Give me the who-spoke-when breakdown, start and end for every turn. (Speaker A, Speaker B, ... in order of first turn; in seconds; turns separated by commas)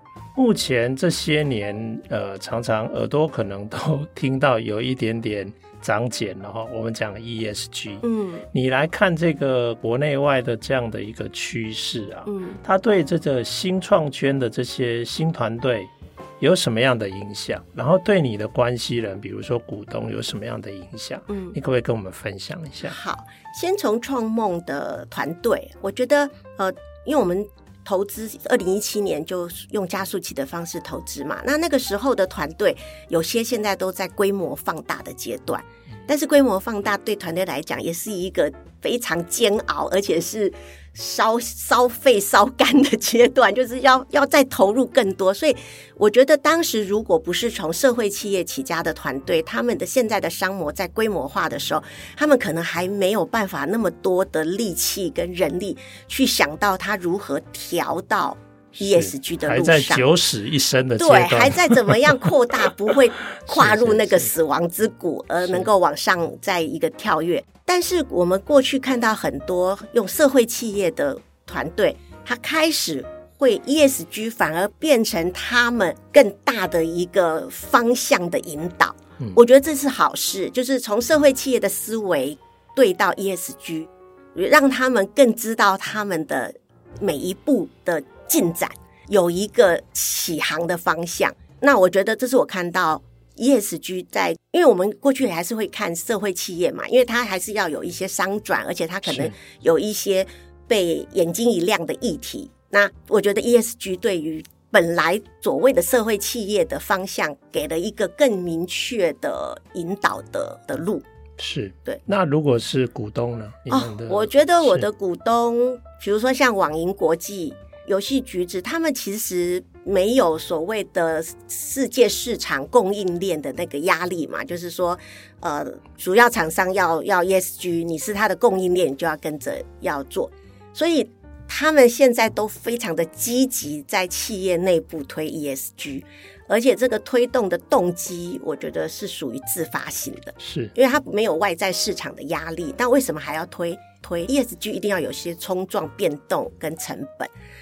Speaker A: 0.3-23.0, Speaker B: 8.0-8.4, Speaker B: 12.3-12.6, Speaker B: 21.3-21.6, Speaker B: 22.8-60.0, Speaker A: 58.7-62.2, Speaker B: 61.0-111.0, Speaker A: 63.5-64.3, Speaker A: 65.4-65.7, Speaker A: 99.0-99.3, Speaker A: 111.4-114.9, Speaker B: 113.7-147.3, Speaker A: 140.4-140.7